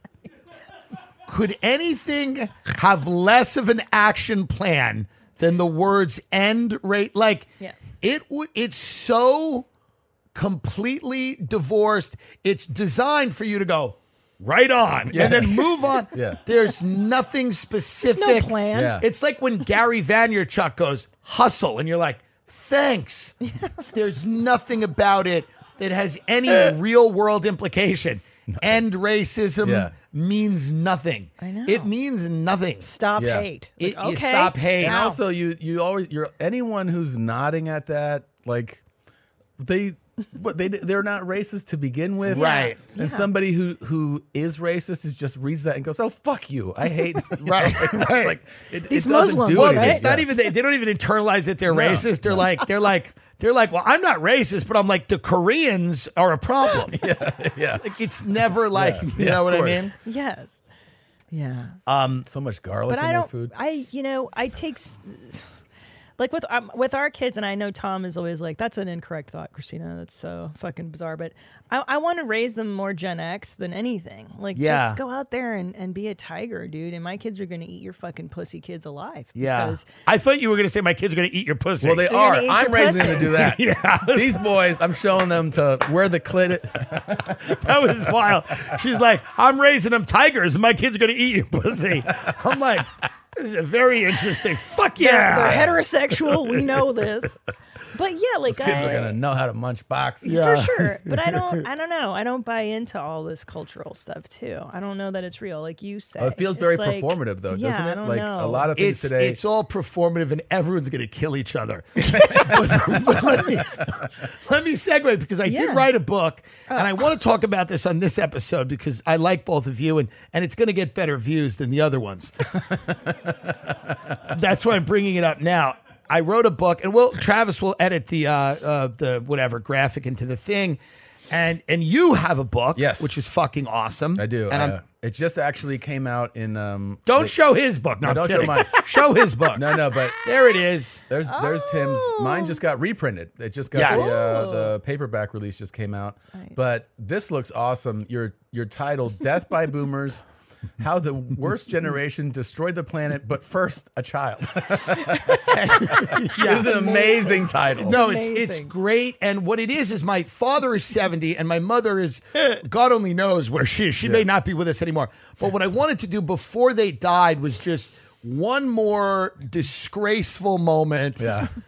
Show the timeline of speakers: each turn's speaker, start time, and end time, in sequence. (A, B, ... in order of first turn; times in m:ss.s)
0:01.3-0:07.5 A
0:08.0-0:09.7 A
0:10.3-0:32.9 A
0:15.1-0:16.4 B
0:18.1-0:19.0 C
0:18.7-0:19.0 B
0:28.5-0:28.8 B
0:29.6-0:29.9 B
0:31.4-0:31.9 C
0:32.8-0:35.2 C
0:33.2-0:33.5 B
0:33.8-0:35.2 A
0:34.8-0:38.8 B
0:39.6-0:50.3 B
0:42.3-0:42.8 A
0:42.3-0:43.3 C
0:47.4-0:48.4 A
0:48.9-0:50.0 C
0:49.5-0:57.0 A
0:51.7-0:52.7 B
0:56.9-0:57.9 B
0:57.8-0:59.9 A
0:58.7-0:59.9 B
1:00.0-1:00.6 C
1:01.3-1:01.8 C
1:01.9-1:02.3 A
1:02.3-1:03.5 B
1:02.9-1:05.5 C
1:06.2-1:19.9 C
1:14.5-1:15.0 A
1:19.4-1:22.1 A
1:21.8-1:27.9 B
1:22.1-1:23.4 C
1:23.3-1:24.4 A
1:27.4-1:35.7 A
1:35.0-1:37.4 C
1:35.4-1:35.8 B
1:37.9-1:39.2 C
1:38.5-1:40.4 B
1:40.2-1:48.7 C
1:40.2-1:41.6 A
1:46.2-1:49.4 B
1:48.7-2:02.4 A
1:55.5-1:55.9 C
1:56.7-1:57.0 C
2:03.5-2:04.2 B
2:04.3-2:14.8 A
2:12.8-2:13.1 B
2:14.2-2:17.3 B
2:17.1-2:21.0 A
2:18.0-2:18.9 B
2:19.5-2:20.2 B
2:21.1-2:30.2 B
2:21.3-2:22.6 C
2:23.7-2:24.2 A
2:23.9-2:24.8 C
2:30.8-2:38.0 B
2:35.1-2:35.6 C
2:35.5-2:36.9 A
2:36.6-2:38.7 C
2:37.8-2:51.4 A
2:51.2-2:51.5 B